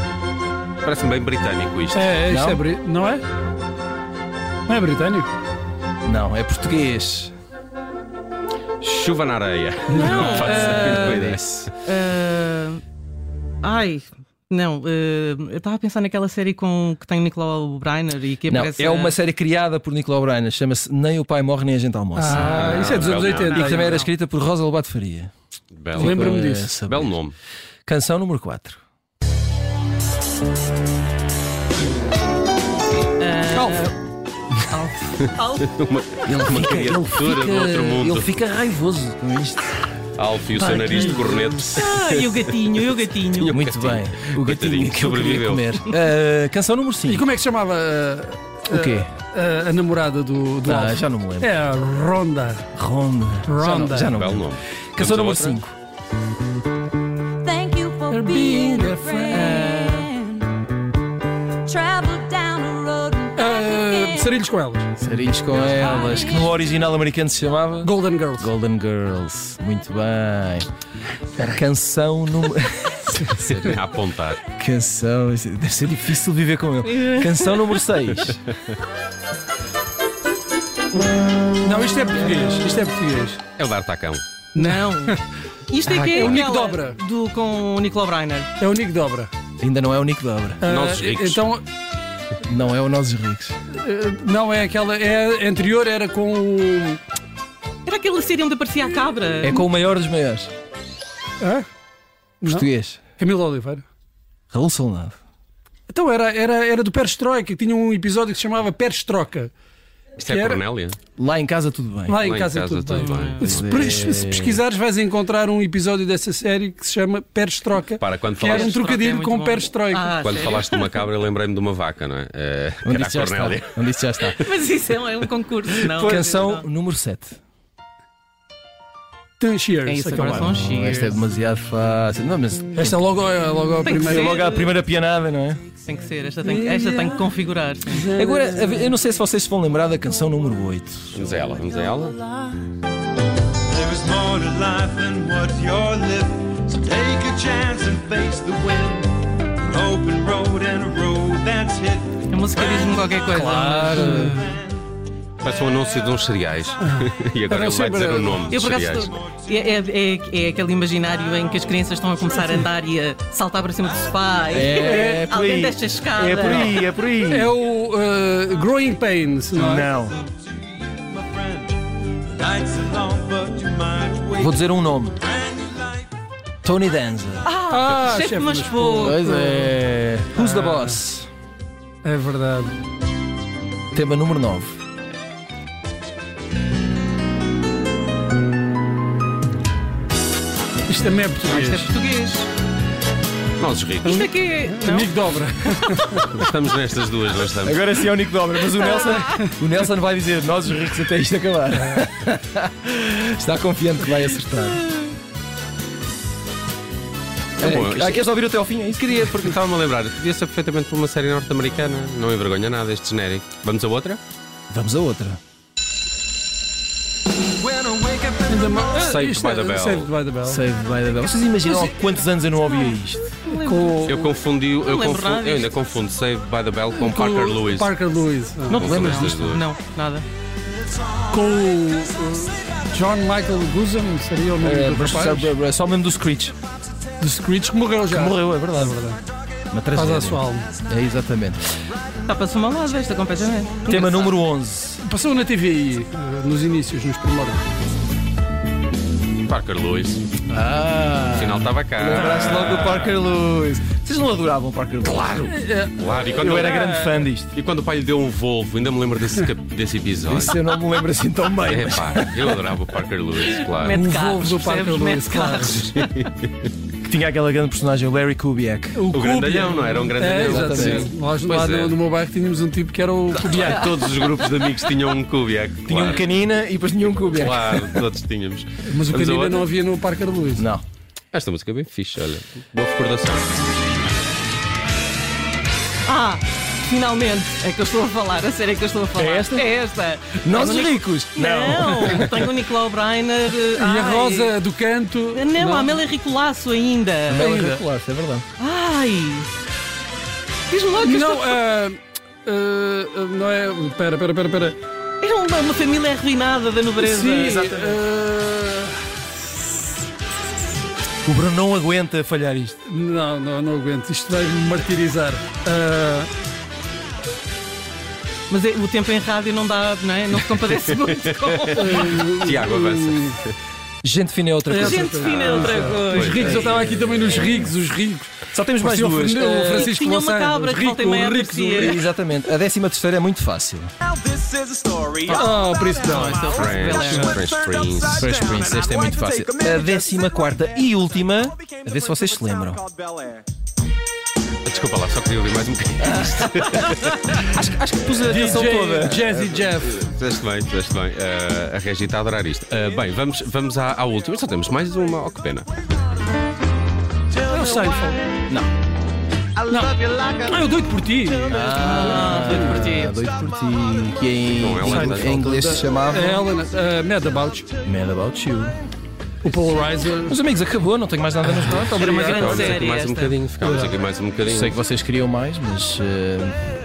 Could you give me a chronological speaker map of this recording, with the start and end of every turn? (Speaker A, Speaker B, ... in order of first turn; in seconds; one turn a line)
Speaker A: 0.8-2.2
Speaker B: 1.9-3.2
Speaker C: 2.3-2.6
Speaker B: 4.7-5.3
Speaker C: 6.1-7.3
Speaker A: 8.8-11.7
Speaker D: 9.9-12.8
Speaker B: 9.9-10.4
Speaker C: 10.2-11.5
Speaker D: 13.6-19.2
Speaker C: 18.5-25.3
Speaker B: 22.2-24.1
Speaker A: 22.3-23.8
Speaker A: 25.8-27.4
Speaker C: 25.9-27.2
Speaker B: 26.0-26.7
Speaker C: 27.9-28.8
Speaker D: 33.2-34.0
Speaker B: 33.5-33.9
Speaker D: 34.6-35.7
Speaker A: 35.7-38.4
Speaker C: 36.2-39.8
Speaker A: 40.2-42.5
Speaker B: 40.6-41.7
Speaker D: 40.6-43.6
Speaker A: 43.3-45.8
Speaker C: 43.5-47.3
Speaker B: 47.1-52.7
Speaker C: 48.7-49.1
Speaker C: 50.6-51.5
Speaker C: 52.7-55.7
Speaker B: 53.5-54.2
Speaker A: 54.1-55.6
Speaker E: 57.4-60.4
Speaker B: 58.1-59.5
Speaker D: 59.3-60.2
Speaker E: 61.7-64.2
Speaker B: 63.4-64.9
Speaker C: 65.0-70.7
Speaker E: 66.0-66.4
Speaker B: 67.8-68.5
Speaker C: 71.4-73.7
Speaker A: 73.3-74.4
Speaker C: 74.5-78.4
Speaker D: 76.8-77.8
Speaker B: 81.6-83.4
Speaker A: 83.6-84.2
Speaker B: 84.6-85.2
Speaker D: 84.6-88.5
Speaker B: 85.8-87.0
Speaker B: 88.6-89.3
Speaker C: 89.6-90.6
Speaker B: 90.6-91.7
Speaker A: 90.6-91.5
Speaker C: 92.4-93.6
Speaker B: 93.7-97.0
Speaker D: 97.8-99.6
Speaker C: 99.4-100.5
Speaker B: 101.4-101.7
Speaker B: 102.4-102.7
Speaker C: 102.4-103.0
Speaker B: 103.2-103.8
Speaker C: 104.5-105.2
Speaker B: 105.9-109.5
Speaker A: 110.2-111.0
Speaker B: 110.2-110.6
Speaker C: 111.2-112.2
Speaker B: 112.1-120.2
Speaker A: 112.2-113.7
Speaker D: 112.9-113.7
Speaker C: 113.4-114.6
Speaker A: 118.0-118.7
Speaker D: 118.4-121.0
Speaker A: 120.2-123.8
Speaker C: 122.8-124.4
Speaker D: 124.3-126.6
Speaker C: 125.8-127.4
Speaker B: 129.4-130.6
Speaker D: 129.9-131.2
Speaker C: 130.1-133.0
Speaker B: 132.8-134.5
Speaker D: 133.8-134.7
Speaker C: 133.9-135.6
Speaker D: 135.9-138.1
Speaker C: 136.4-137.3
Speaker B: 137.9-138.9
Speaker C: 138.1-141.2
Speaker A: 141.1-142.2
Speaker F: 143.7-152.9
Speaker D: 152.3-154.5
Speaker B: 153.3-154.6
Speaker C: 153.4-154.5
Speaker A: 155.4-159.1
Speaker B: 156.8-158.6
Speaker D: 158.5-166.8
Speaker C: 164.5-167.5
Speaker B: 164.7-165.3
Speaker B: 166.4-169.9
Speaker C: 169.5-170.2
Speaker F: 171.0-174.6
Speaker C: 174.4-175.2
Speaker F: 175.3-176.0
Speaker C: 176.6-177.5
Speaker D: 177.4-179.3
Speaker B: 177.7-179.8
Speaker C: 179.0-181.3
Speaker B: 180.3-181.0
Speaker B: 182.0-182.8
Speaker C: 183.9-184.8
Speaker B: 190.9-191.9
Speaker D: 191.4-192.5
Speaker A: 193.6-194.3
Speaker D: 194.1-195.2
Speaker B: 194.7-196.4
Speaker A: 196.2-197.8
Speaker C: 197.6-204.8
Speaker D: 198.9-199.3
Speaker A: 207.6-208.3
Speaker C: 207.6-209.6
Speaker A: 209.2-214.2
Speaker C: 214.7-215.4
Speaker C: 217.6-218.6
Speaker B: 218.5-220.6
Speaker A: 218.9-220.1
Speaker C: 220.5-223.4
Speaker D: 223.4-224.3
Speaker B: 223.5-224.3
Speaker A: 224.0-228.0
Speaker D: 224.8-225.7
Speaker B: 226.9-228.8
Speaker D: 228.7-230.3
Speaker A: 228.7-229.6
Speaker C: 228.8-229.3
Speaker B: 231.3-235.5
Speaker C: 234.6-236.6
Speaker B: 237.2-239.2
Speaker C: 238.1-239.0
Speaker C: 239.7-241.6
Speaker B: 239.9-240.7
Speaker D: 242.3-244.3
Speaker C: 243.9-245.0
Speaker B: 245.0-247.7
Speaker A: 249.5-250.2
Speaker C: 250.5-255.6
Speaker A: 251.3-253.2
Speaker A: 255.0-256.9
Speaker B: 255.5-257.3
Speaker C: 256.2-257.5
Speaker A: 257.5-260.6
Speaker C: 260.2-262.6
Speaker A: 261.7-264.0
Speaker D: 263.8-266.3
Speaker B: 263.9-265.9
Speaker A: 265.8-266.7
Speaker C: 267.0-269.1
Speaker B: 268.9-274.0
Speaker A: 269.1-272.0
Speaker C: 270.4-271.1
Speaker A: 273.3-276.3
Speaker C: 275.9-278.0
Speaker A: 277.3-279.7
Speaker B: 278.9-280.7
Speaker C: 280.6-280.8
Speaker A: 281.3-283.6
Speaker D: 286.1-294.6
Speaker C: 289.1-289.7
Speaker C: 290.4-292.4
Speaker B: 293.7-296.0
Speaker D: 295.3-297.5
Speaker C: 297.3-298.5
Speaker B: 297.4-297.9
Speaker D: 298.6-299.5
Speaker D: 300.7-301.6
Speaker B: 301.0-304.8
Speaker D: 305.2-307.6
Speaker B: 307.0-309.1
Speaker C: 307.4-308.0
Speaker C: 311.2-312.8
Speaker B: 312.9-316.3
Speaker D: 318.5-322.2
Speaker A: 320.9-323.5
Speaker B: 321.8-323.4
Speaker C: 324.0-327.8
Speaker B: 324.7-332.1
Speaker D: 324.8-326.8
Speaker A: 325.2-326.6
Speaker C: 328.5-329.9
Speaker D: 329.7-332.0
Speaker C: 331.8-333.9
Speaker F: 334.1-340.0
Speaker B: 335.2-337.2
Speaker D: 336.0-337.5
Speaker A: 336.4-338.4
Speaker C: 338.2-342.9
Speaker F: 342.2-343.4
Speaker A: 344.7-347.4
Speaker C: 347.4-349.6
Speaker B: 348.2-350.0
Speaker A: 349.8-355.7
Speaker B: 357.4-358.3
Speaker B: 359.6-363.0
Speaker C: 361.4-366.5
Speaker D: 361.7-363.2
Speaker A: 364.5-365.4
Speaker B: 364.8-367.7
Speaker C: 367.8-368.8
Speaker B: 369.4-370.4
Speaker C: 370.3-372.3
Speaker B: 371.4-372.8
Speaker D: 372.0-373.4
Speaker A: 372.2-374.8
Speaker B: 373.6-374.0
Speaker C: 374.5-376.6